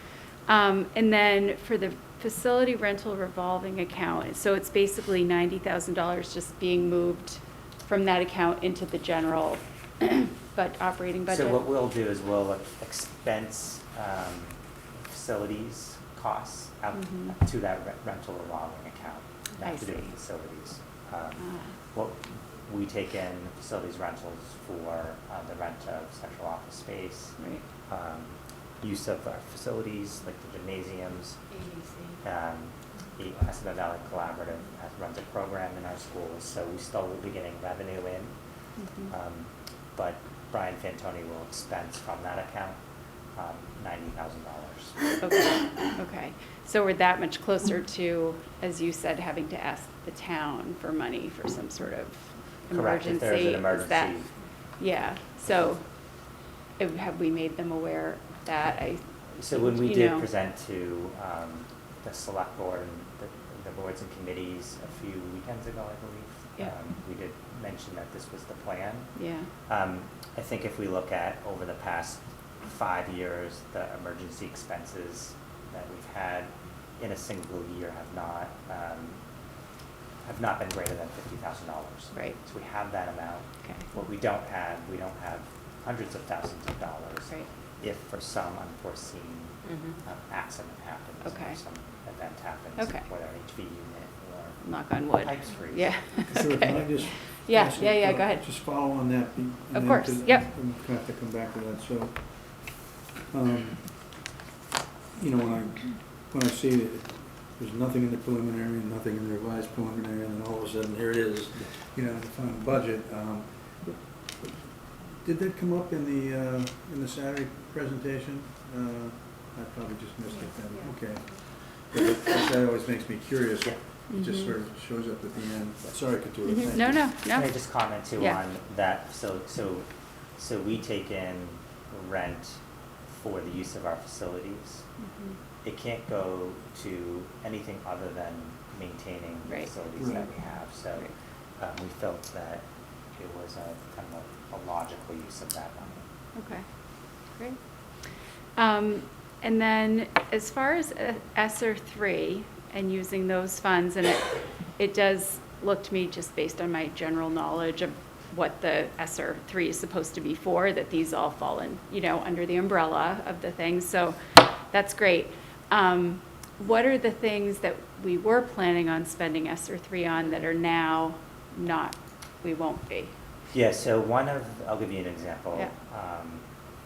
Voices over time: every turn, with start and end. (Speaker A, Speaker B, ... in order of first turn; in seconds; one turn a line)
Speaker A: 0.5-11.6
Speaker B: 11.3-31.4
Speaker A: 17.0-17.4
Speaker A: 19.6-20.1
Speaker A: 21.4-21.7
Speaker A: 27.4-27.6
Speaker B: 32.2-38.4
Speaker A: 38.8-39.1
Speaker B: 39.0-42.8
Speaker B: 43.3-45.3
Speaker A: 45.2-54.1
Speaker B: 52.7-54.3
Speaker A: 54.8-55.8
Speaker A: 56.8-60.2
Speaker B: 59.4-69.1
Speaker A: 69.2-69.5
Speaker B: 69.7-79.2
Speaker B: 80.2-94.6
Speaker A: 91.2-91.6
Speaker A: 92.8-93.0
Speaker A: 94.6-98.5
Speaker B: 95.2-96.2
Speaker C: 96.3-104.2
Speaker A: 99.7-100.5
Speaker C: 105.2-127.1
Speaker A: 124.1-124.5
Speaker A: 126.5-127.5
Speaker B: 127.3-134.9
Speaker B: 135.6-142.7
Speaker B: 143.2-146.1
Speaker A: 146.3-146.7
Speaker A: 147.3-147.6
Speaker A: 148.6-173.1
Speaker B: 173.5-176.4